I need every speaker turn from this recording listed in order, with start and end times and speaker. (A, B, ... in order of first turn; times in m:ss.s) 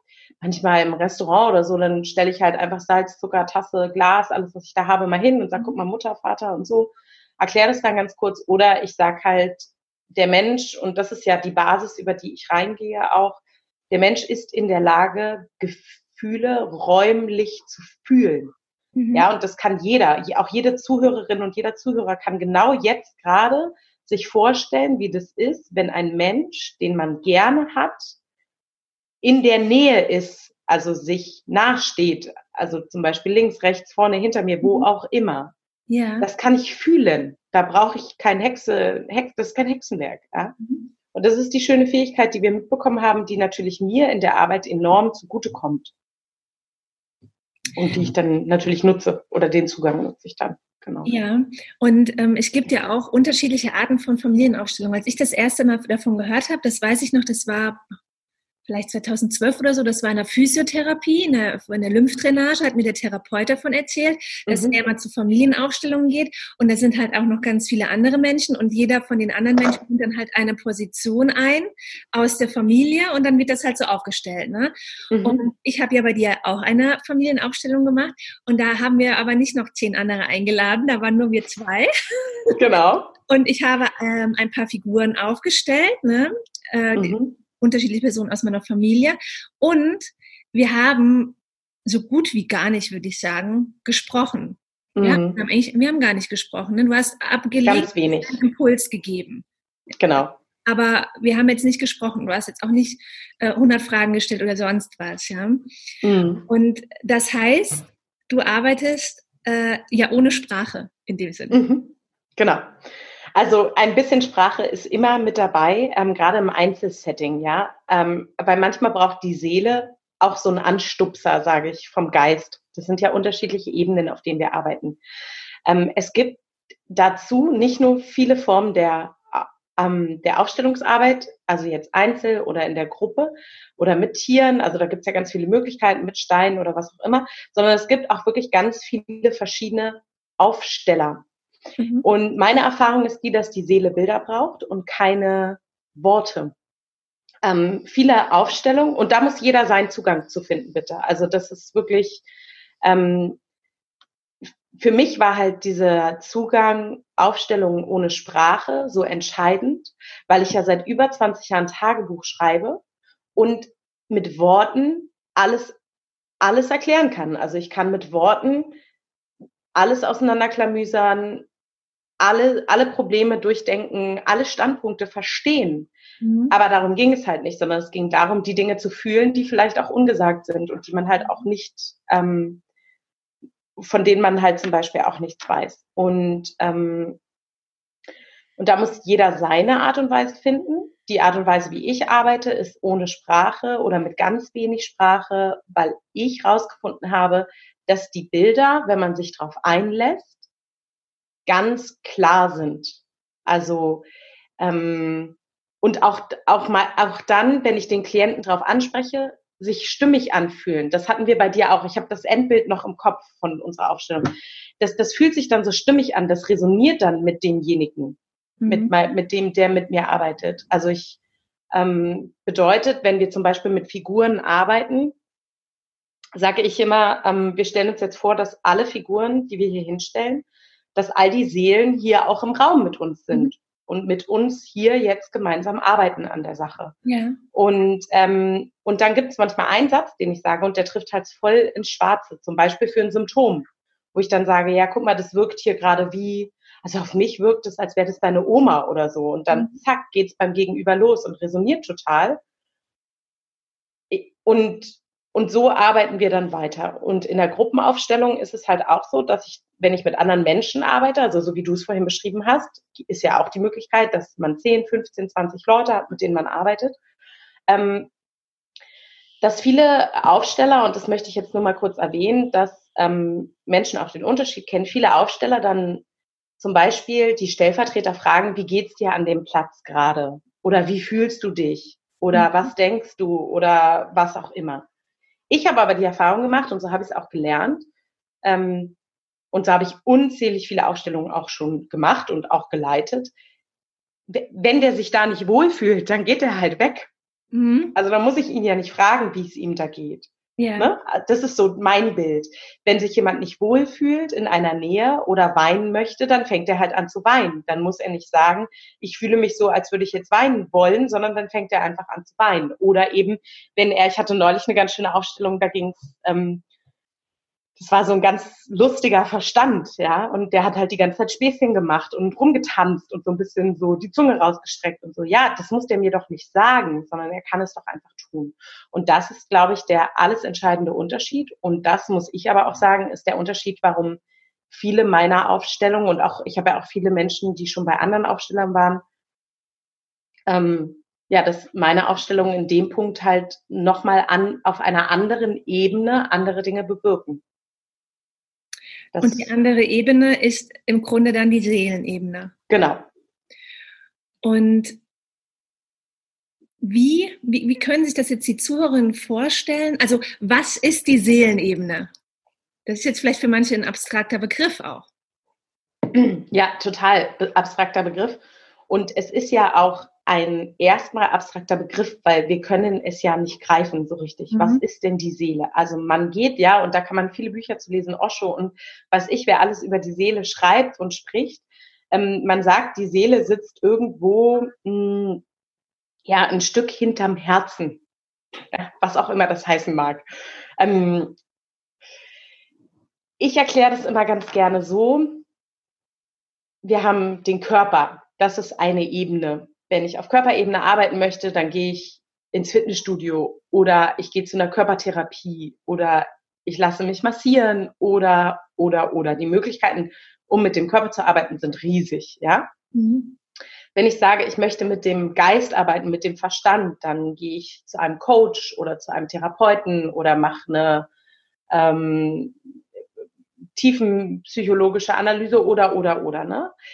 0:00.4-0:18.5 A
0:19.0-0:19.2 B
0:19.1-0:28.2 A
0:29.2-0:35.5 A
0:35.9-0:36.3 B
0:36.2-0:40.6 A
0:41.1-0:45.9 A
0:47.7-0:51.1 A
0:51.0-0:57.8 B
0:58.7-1:14.7 B
1:04.5-1:04.8 A
1:15.1-1:15.4 A
1:15.2-1:22.5 B
1:22.5-1:23.1 A
1:23.3-1:39.4 B
1:26.9-1:27.4 A
1:35.0-1:35.4 A
1:37.6-1:38.4 A
1:40.0-1:40.3 A
1:40.6-1:45.7 B
1:46.0-1:46.5 A
1:46.5-1:51.6 B
1:51.5-1:52.7 A
1:53.4-2:05.0 A
2:05.6-2:21.2 A
2:21.8-2:22.0 B
2:22.0-2:26.5 A
2:27.4-2:32.2 A
2:32.8-2:33.4 A
2:34.7-2:42.8 A
2:43.4-2:45.8 A
2:46.4-2:48.7 A
2:49.7-2:51.5 A
2:52.2-2:55.9 A
2:56.2-2:56.5 B
2:56.5-3:02.6 A
3:01.2-3:01.4 B
3:03.8-3:07.2 A
3:08.6-3:20.4 A
3:21.4-3:24.0 A
3:24.6-3:41.2 A
3:38.6-3:38.9 B
3:41.7-3:45.1 A
3:46.4-3:56.9 A
3:57.0-3:57.4 B
3:57.5-4:12.4 A
4:14.1-4:27.0 A
4:27.7-4:28.1 A
4:29.4-4:36.0 A
4:36.6-4:44.8 A
4:42.3-4:42.7 B
4:45.5-4:47.8 A
4:48.4-4:49.0 A
4:49.5-4:53.3 A
4:54.3-4:57.1 A
4:57.5-4:58.0 B
4:57.9-5:16.6 A
5:00.6-5:00.9 B
5:17.8-5:39.0 A
5:40.5-5:47.4 A
5:49.1-5:49.5 A
5:49.2-5:52.5 B
5:52.7-5:53.0 A
5:54.4-5:55.0 B
5:56.8-6:02.1 B
6:02.8-6:05.1 B
6:06.1-6:25.4 A
6:14.5-6:14.8 B
6:26.3-6:28.0 A
6:28.7-6:30.2 A
6:30.8-6:31.4 A
6:33.4-6:35.4 A
6:36.8-6:52.7 A
6:52.9-6:53.4 B
6:53.9-7:01.1 A
7:01.7-7:02.6 A
7:03.8-7:06.7 A